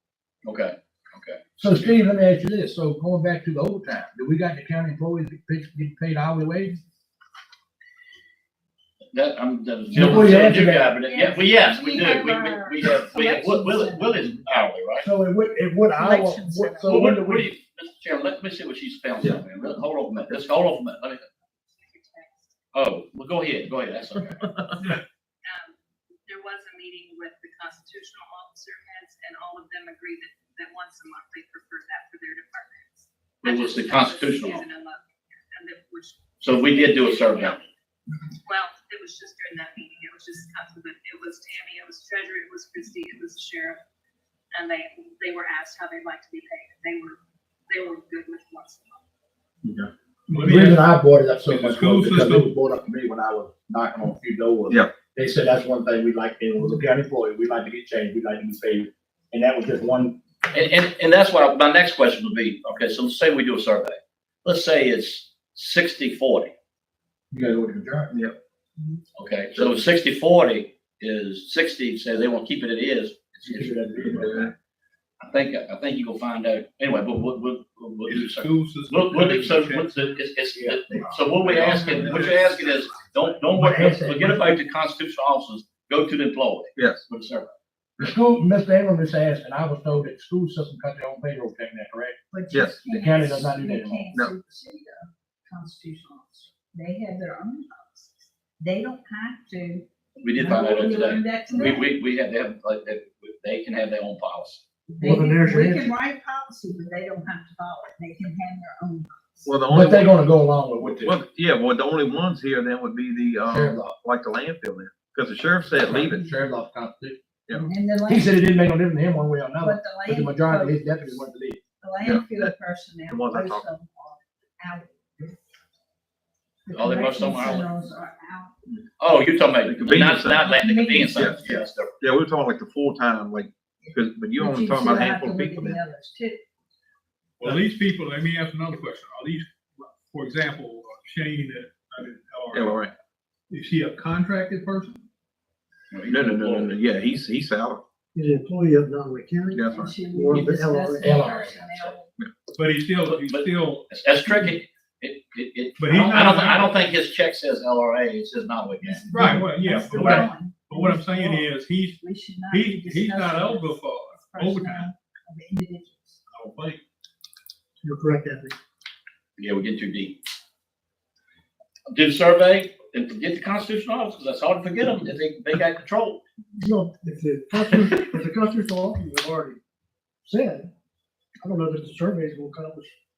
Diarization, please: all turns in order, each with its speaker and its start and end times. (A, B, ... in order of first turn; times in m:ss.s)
0:00.4-0:02.0 A
0:01.6-0:06.8 B
0:09.1-0:15.1 A
0:09.9-0:10.9 B
0:11.0-0:14.2 C
0:15.0-0:17.5 B
0:15.9-0:17.0 C
0:16.8-0:21.2 A
0:21.8-0:22.5 D
0:22.7-0:24.6 A
0:25.4-0:37.7 D
0:33.4-0:34.6 A
0:36.4-0:37.6 A
0:38.4-0:43.8 D
0:44.5-0:49.0 D
0:49.6-1:00.2 B
0:50.3-0:50.9 E
0:51.4-0:52.5 E
1:00.5-1:06.5 A
1:07.3-1:08.2 B
1:09.2-1:14.3 A
1:13.4-1:14.5 B
1:15.2-1:27.5 A
1:18.0-1:19.9 E
1:20.5-1:24.4 B
1:21.4-1:22.5 E
1:26.8-1:27.0 F
1:28.0-1:32.2 B
1:32.3-1:41.9 C
1:32.5-1:32.8 F
1:32.9-1:34.1 B
1:40.2-1:44.6 A
1:44.9-1:49.5 C
1:45.0-1:45.9 G
1:49.4-1:50.2 F
1:49.7-1:51.2 B
1:51.0-1:56.2 F
1:53.5-1:53.9 B
1:55.8-1:57.2 B
1:57.6-1:58.4 C
1:58.0-2:01.6 B
1:59.6-2:01.2 C
2:01.8-2:05.3 C
2:02.0-2:02.5 F
2:03.1-2:03.6 F
2:06.6-2:08.5 C
2:06.7-2:07.7 A
2:09.0-2:12.0 A
2:09.6-2:10.6 F
2:10.4-2:11.7 C
2:12.0-2:15.8 F
2:13.8-2:16.4 C
2:17.4-2:22.9 E
2:22.5-2:22.9 F
2:23.5-2:25.0 E
2:25.9-2:26.8 A
2:26.1-2:27.8 F
2:28.1-2:31.2 G
2:29.5-2:29.9 F
2:29.7-2:32.1 C
2:31.0-2:31.6 B
2:31.4-2:31.9 A
2:32.5-2:33.8 E
2:33.0-2:39.0 A
2:35.8-2:36.8 E
2:38.8-2:41.5 C
2:39.1-2:44.9 E
2:42.0-2:46.2 C
2:46.3-2:46.8 E
2:47.8-2:48.6 G
2:49.4-2:50.2 A
2:51.9-2:56.2 A
2:56.6-2:59.6 G
3:00.2-3:00.7 G
3:01.4-3:02.9 G